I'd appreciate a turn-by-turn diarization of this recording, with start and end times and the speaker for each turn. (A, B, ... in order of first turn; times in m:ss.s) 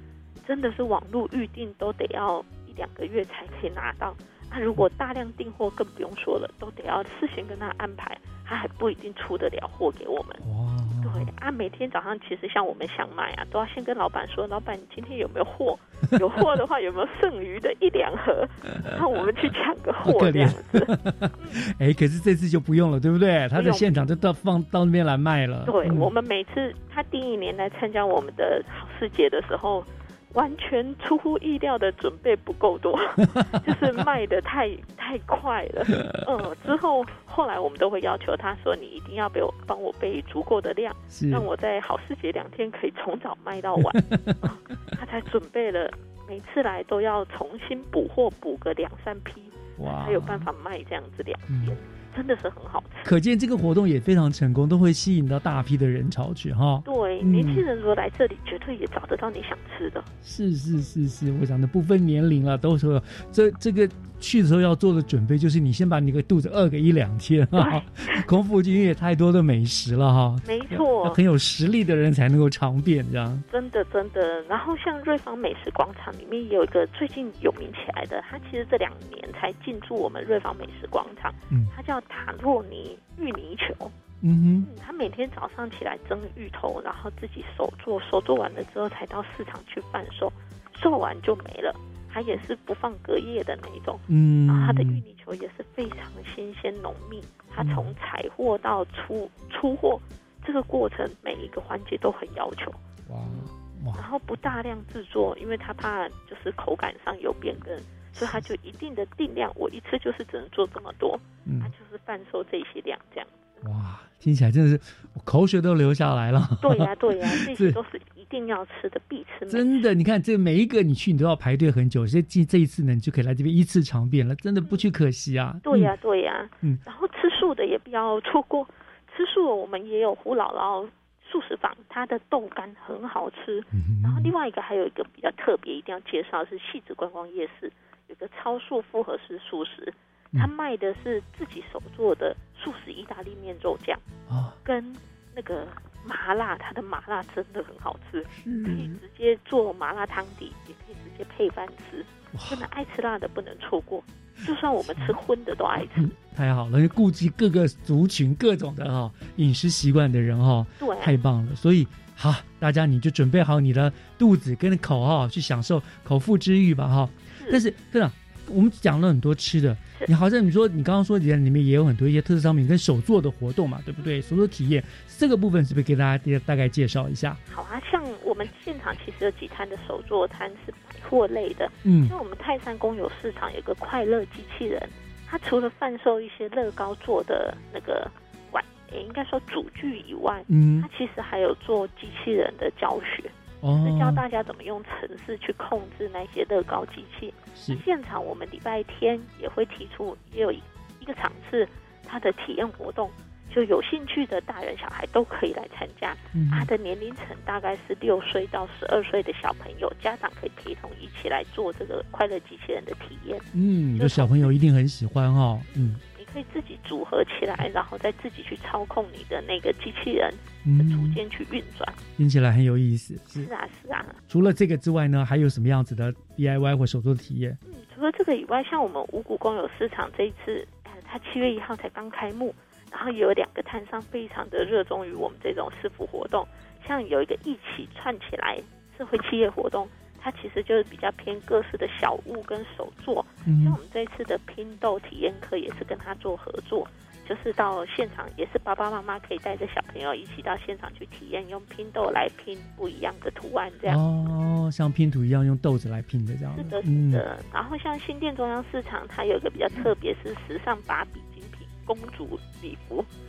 0:00.4-0:10.4 A
0:10.4-0:11.3 B
0:11.0-0:21.6 A
0:20.0-0:26.1 B
0:23.5-0:23.9 A
0:25.6-0:53.1 A
0:33.3-0:34.0 B
0:35.9-0:36.2 B
0:41.1-0:41.5 B
0:43.8-0:44.6 B
0:49.8-0:50.5 B
0:51.5-0:51.8 B
0:53.0-0:57.6 B
0:56.8-1:00.1 A
1:00.2-1:13.5 B
1:07.6-1:08.2 A
1:10.4-1:11.2 A
1:13.5-1:23.9 A
1:24.2-1:24.7 B
1:24.6-1:42.8 A
1:34.1-1:35.0 B
1:37.6-1:37.9 B
1:43.1-1:44.0 B
1:43.9-1:53.5 A
1:48.1-1:48.5 B
1:51.4-1:51.7 B
1:53.6-1:57.8 B
1:56.6-1:59.8 A
1:59.5-2:05.9 B
2:05.6-2:24.0 A
2:13.7-2:14.3 B
2:24.3-2:24.6 B
2:24.6-2:36.1 A
2:28.3-2:29.0 B
2:32.3-2:32.7 B
2:34.8-2:35.2 B
2:35.8-2:57.4 B
2:40.8-2:41.2 A
2:57.5-3:34.5 A
3:01.8-3:02.2 B
3:10.5-3:10.9 B
3:13.6-3:14.2 B
3:17.6-3:17.8 B
3:26.3-3:26.7 B
3:33.5-3:36.0 B
3:36.1-3:42.0 A
3:40.6-3:41.2 B
3:42.2-3:43.5 B
3:43.3-3:44.2 A
3:44.3-3:47.6 B
3:47.7-4:14.0 A
4:03.4-4:03.8 B
4:13.9-4:17.3 B
4:16.6-4:23.1 A